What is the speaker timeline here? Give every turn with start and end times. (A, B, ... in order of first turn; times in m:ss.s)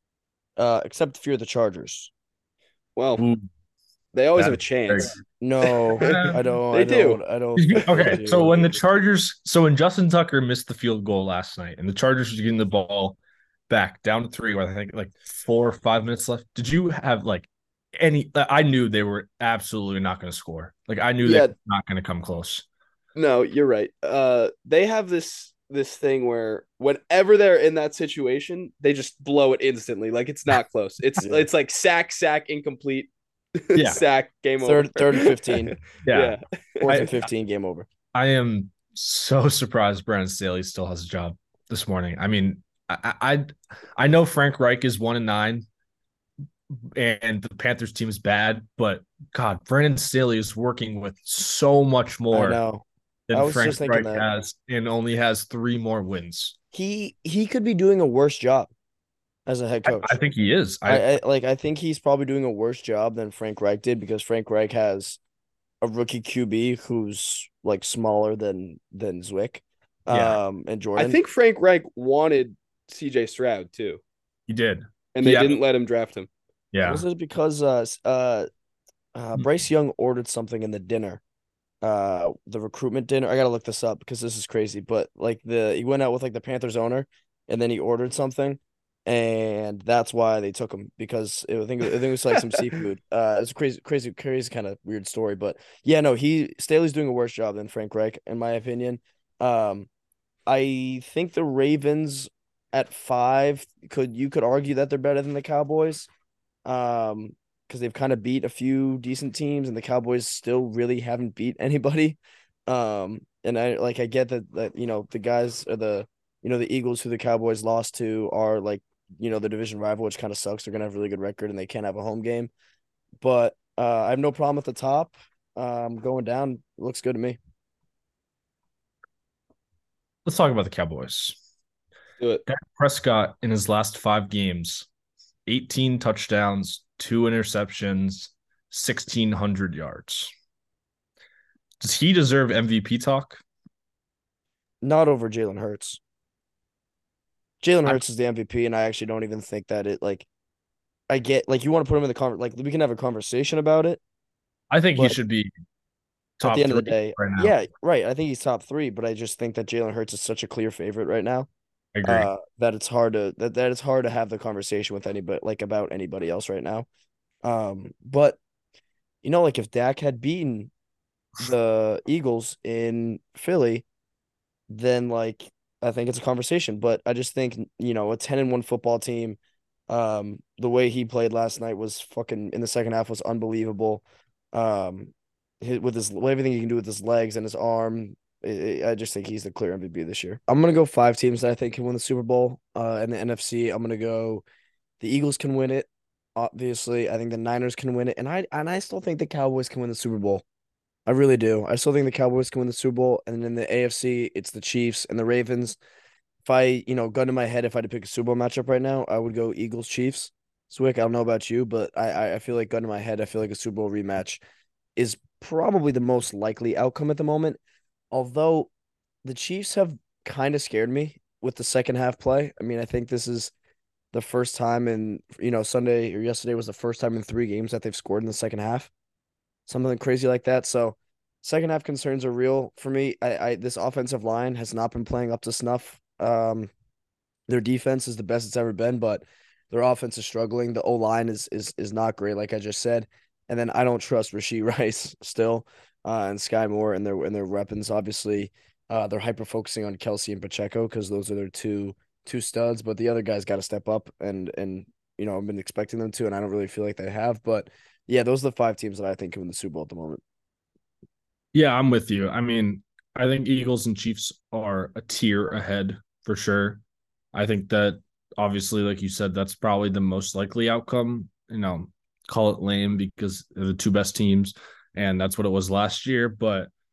0:00.6-0:02.1 A
0:03.0-0:03.2 B
0:03.2-0:03.5 C
0:04.1-0:05.2 B
0:04.4-0:05.1 C
0:05.4-0:08.8 A
0:05.9-0:07.2 B
0:06.0-0:06.4 C
0:07.6-0:13.2 C
0:13.7-0:22.6 C
0:21.2-0:21.5 B
0:23.2-0:37.0 B
0:31.2-0:31.5 A
0:33.8-0:34.0 C
0:34.6-0:35.7 A
0:36.1-0:37.1 C
0:36.8-0:37.9 A
0:38.2-0:45.7 C
0:46.9-0:52.6 C
0:52.3-0:54.2 A
0:53.3-0:56.6 C
0:56.7-0:58.7 A
0:59.5-1:00.2 A
0:59.9-1:01.2 C
1:00.9-1:05.2 A
1:05.8-1:11.2 A
1:10.1-1:10.4 C
1:11.0-1:14.0 B
1:14.5-1:15.6 C
1:15.2-1:16.3 B
1:16.7-1:17.0 C
1:16.8-1:18.5 A
1:19.2-1:21.2 A
1:21.8-1:39.9 A
1:40.5-1:46.1 A
1:46.7-2:02.5 A
2:03.2-2:07.4 A
2:10.2-2:11.4 C
2:12.5-2:14.9 C
2:15.5-2:20.3 C
2:21.8-2:23.4 C
2:24.8-2:26.0 A
2:27.6-2:30.3 A
2:31.1-2:34.0 A
2:34.7-2:35.5 C
2:36.4-2:37.5 C
2:36.4-2:41.5 A
2:42.0-2:42.3 C
2:42.0-2:46.9 A
2:47.4-2:48.4 A
2:49.2-2:50.7 A
2:51.4-2:53.8 A
2:54.7-3:14.4 A
3:15.0-3:20.4 A
3:21.1-3:25.8 A
3:26.4-3:34.4 A
3:35.0-3:37.6 A
3:38.1-3:38.7 A
3:39.2-3:43.5 A
3:44.1-3:48.9 A
3:49.7-3:56.7 A
3:57.5-4:20.2 A
4:21.5-4:26.8 C
4:27.3-4:36.7 C